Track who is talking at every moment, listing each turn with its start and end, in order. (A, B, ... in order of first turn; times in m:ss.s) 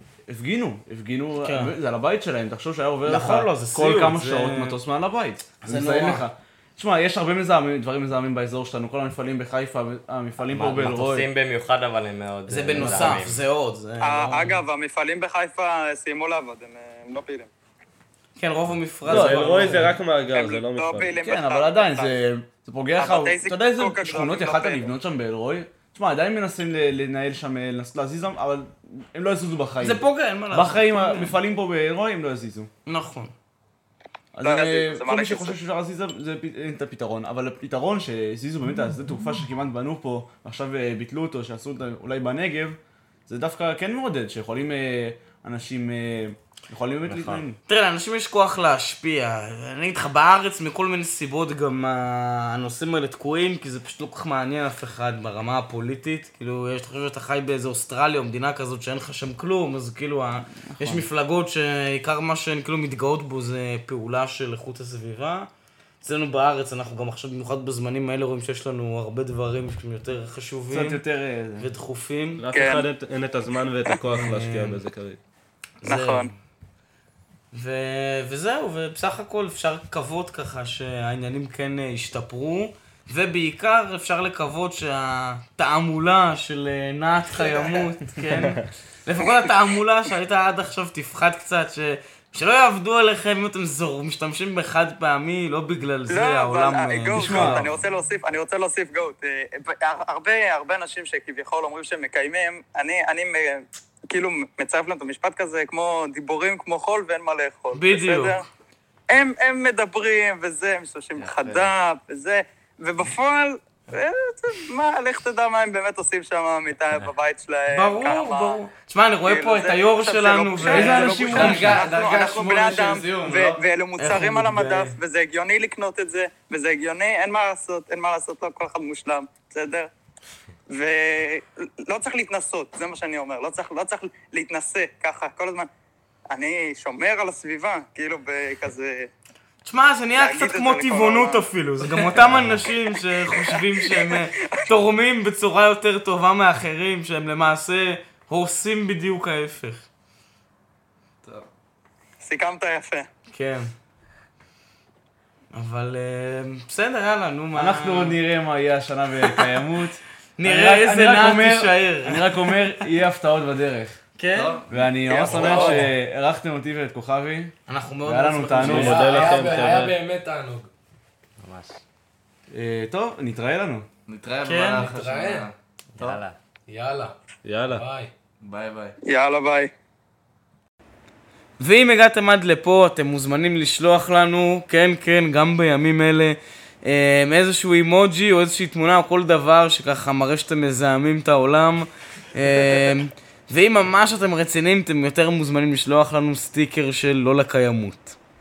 0:00.3-0:11.3 A
0:01.4-0:01.7 B
0:03.1-0:04.8 B
0:05.6-0:06.2 B
0:10.5-0:13.4 C
0:12.5-0:14.6 B
0:14.0-0:17.5 D
0:18.4-0:19.9 B
0:19.0-0:21.2 E
0:19.1-0:19.8 A
0:20.3-0:22.2 D
0:21.1-0:32.7 A
0:23.0-0:24.9 D
0:29.8-0:31.3 B
0:32.9-0:33.3 B
0:34.3-0:47.6 A
0:34.4-0:35.6 D
0:47.1-0:47.4 C
0:47.7-1:05.5 B
1:00.7-1:01.0 A
1:06.0-1:11.0 B
1:10.7-1:11.7 A
1:11.6-1:12.4 B
1:12.4-1:15.2 E
1:12.5-1:12.9 D
1:14.2-1:14.8 B
1:15.8-1:16.3 B
1:15.8-1:16.3 D
1:17.5-1:37.7 B
1:27.4-1:27.9 D
1:36.1-1:48.4 D
1:37.1-1:37.8 A
1:47.7-1:48.4 B
1:49.1-1:58.6 D
1:51.2-1:51.7 F
1:57.7-2:01.6 B
1:59.3-2:09.9 D
2:00.7-2:01.9 A
2:00.7-2:03.6 F
2:04.0-2:05.0 B
2:10.7-2:15.7 D
2:16.3-2:19.1 D
2:19.6-2:29.9 B
2:20.2-2:21.5 D
2:22.7-2:24.6 D
2:32.2-2:33.1 D
2:33.3-2:33.7 B
2:35.5-2:38.2 B
2:37.5-2:44.0 A
2:40.4-2:42.6 B
2:44.2-2:45.9 B
2:44.3-2:45.7 F
2:44.7-2:49.1 A
2:45.3-2:45.8 G
2:47.7-2:49.4 B
2:48.5-2:50.0 E
2:48.8-2:50.7 G
2:51.4-2:51.8 C
2:52.5-2:53.9 A
2:54.1-2:56.2 F
2:54.4-2:54.9 B
2:54.7-2:55.5 G
2:56.0-2:56.4 C
2:56.7-2:57.2 G
2:57.4-2:57.8 E
2:57.7-2:58.1 G
2:58.4-2:59.0 F
2:59.0-2:59.7 D
3:01.6-3:18.2 B